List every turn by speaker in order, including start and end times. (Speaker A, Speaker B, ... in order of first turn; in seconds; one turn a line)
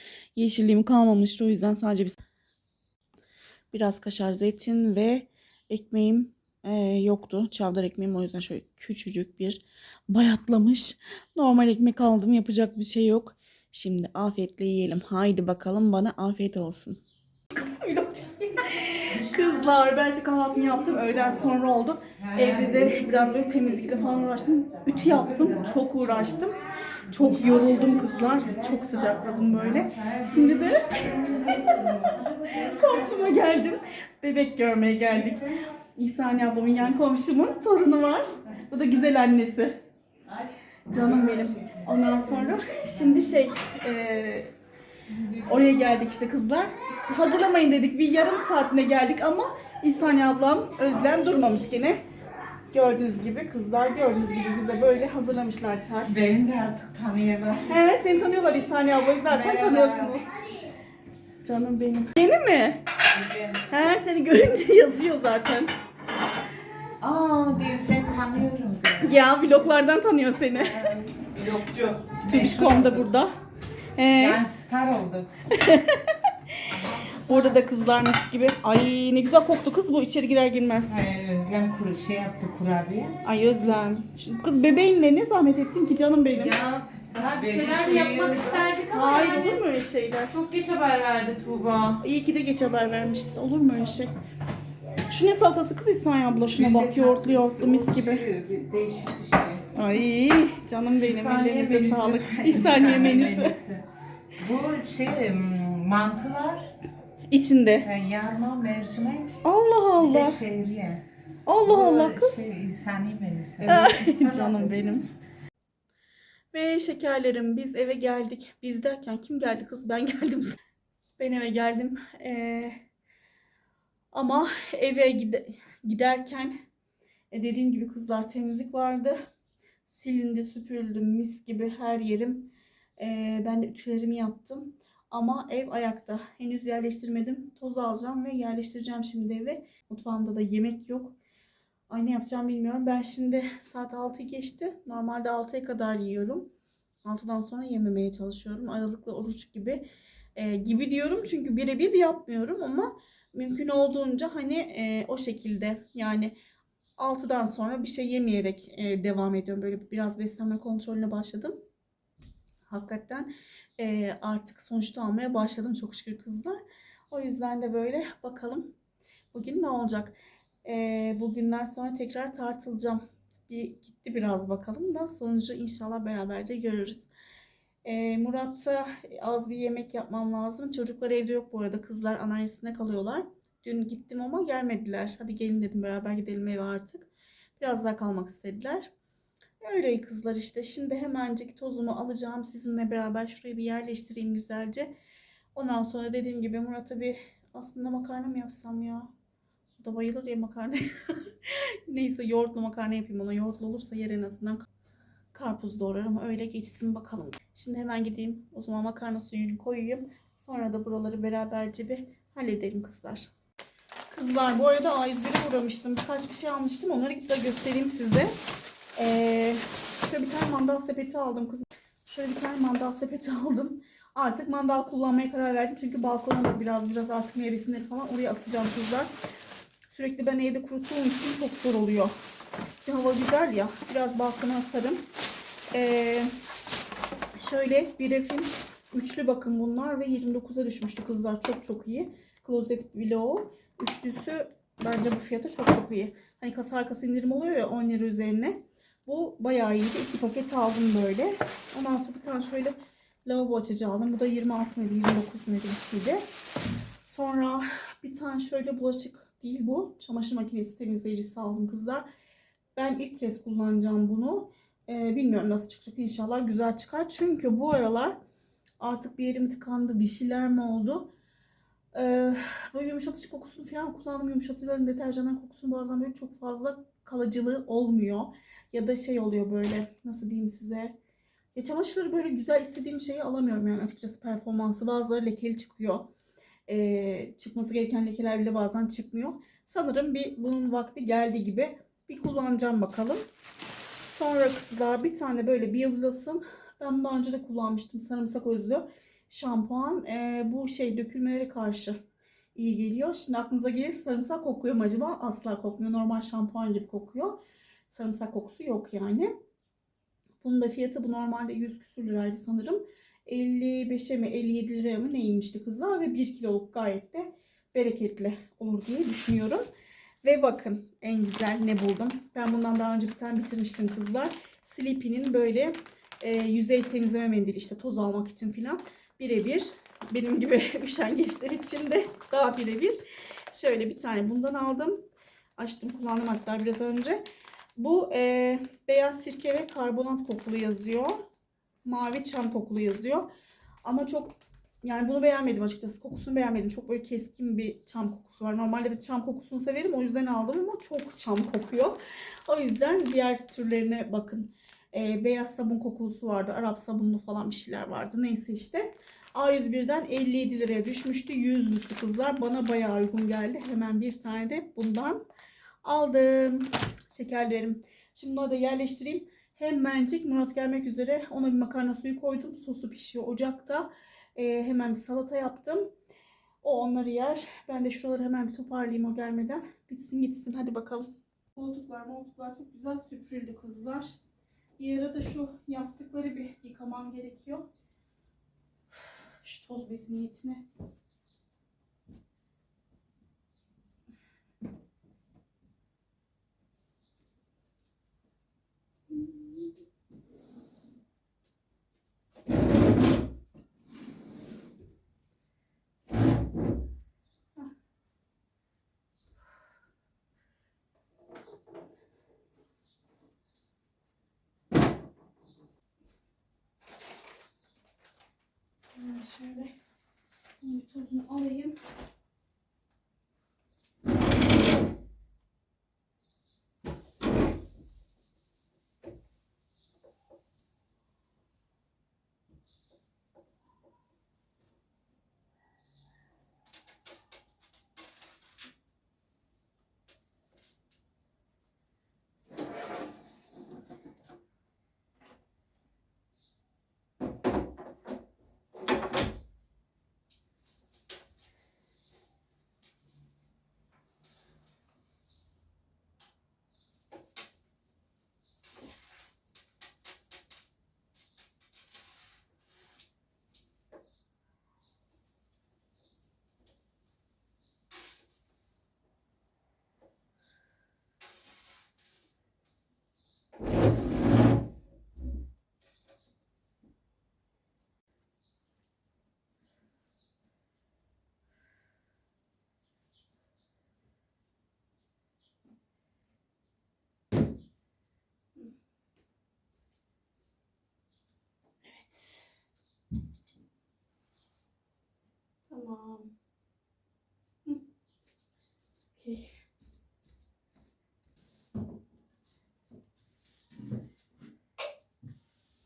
Speaker A: 0.3-2.2
Speaker A: 3.7-26.6
Speaker B: 19.1-19.7
Speaker B: 20.7-21.6
Speaker B: 22.1-26.4
Speaker A: 27.1-39.8
Speaker B: 27.1-33.6
Speaker B: 35.1-35.7
Speaker B: 40.3-43.2
Speaker A: 40.9-44.5
Speaker A: 45.3-52.0
Speaker A: 52.7-56.1
Speaker B: 56.0-57.8
Speaker A: 57.6-60.4
Speaker B: 59.2-60.2
Speaker A: 61.4-62.8
Speaker B: 63.1-63.6
Speaker A: 63.6-65.7
Speaker B: 67.0-69.4
Speaker A: 69.0-70.9
Speaker B: 70.5-73.1
Speaker A: 72.2-73.3
Speaker A: 74.0-74.4
Speaker B: 74.1-75.3
Speaker A: 75.5-76.7
Speaker B: 76.7-77.6
Speaker A: 77.2-81.0
Speaker B: 80.9-83.2
Speaker A: 83.2-86.6
Speaker B: 86.3-89.5
Speaker C: 87.1-89.4
Speaker A: 88.7-90.4
Speaker C: 90.3-91.4
Speaker B: 90.5-92.0
Speaker A: 92.0-94.1
Speaker A: 95.1-98.2
Speaker B: 96.5-99.7
Speaker A: 99.7-103.6
Speaker B: 101.0-106.7
Speaker A: 107.3-107.9
Speaker B: 107.8-109.4
Speaker A: 109.4-110.4
Speaker B: 110.0-111.0
Speaker A: 111.5-112.5
Speaker B: 111.6-114.8
Speaker A: 113.6-115.1
Speaker A: 116.5-120.5
Speaker A: 121.2-122.8
Speaker A: 124.1-126.5
Speaker A: 127.3-129.2
Speaker A: 129.9-141.2
Speaker A: 141.9-146.5
Speaker A: 147.0-156.3
Speaker A: 157.0-161.6
Speaker A: 162.7-166.6
Speaker A: 167.1-168.7
Speaker A: 169.3-177.1
Speaker A: 177.8-188.9
Speaker A: 189.6-194.9
Speaker A: 195.5-199.1
Speaker A: 199.8-204.7
Speaker A: 205.3-213.3
Speaker A: 214.1-218.3
Speaker A: 218.9-229.1
Speaker A: 229.8-232.1
Speaker A: 232.8-235.0
Speaker A: 235.7-236.3
Speaker A: 237.3-256.2
Speaker A: 257.0-262.1
Speaker A: 262.7-268.2
Speaker A: 268.8-271.1
Speaker A: 271.9-280.9
Speaker A: 281.5-286.1
Speaker A: 286.7-293.2
Speaker A: 294.1-302.0
Speaker A: 302.5-309.3
Speaker A: 310.4-319.6
Speaker A: 320.2-333.0
Speaker A: 333.5-335.0
Speaker A: 335.6-337.2
Speaker A: 337.8-341.2
Speaker A: 341.8-343.3
Speaker A: 343.8-365.2
Speaker A: 365.8-375.9
Speaker A: 376.6-384.2
Speaker A: 384.8-387.7
Speaker A: 389.4-390.6
Speaker A: 399.1-399.7
Speaker A: 418.9-419.7
Speaker A: 420.6-421.8
Speaker A: 491.8-492.5
Speaker A: 495.7-496.3
Speaker A: 499.1-499.5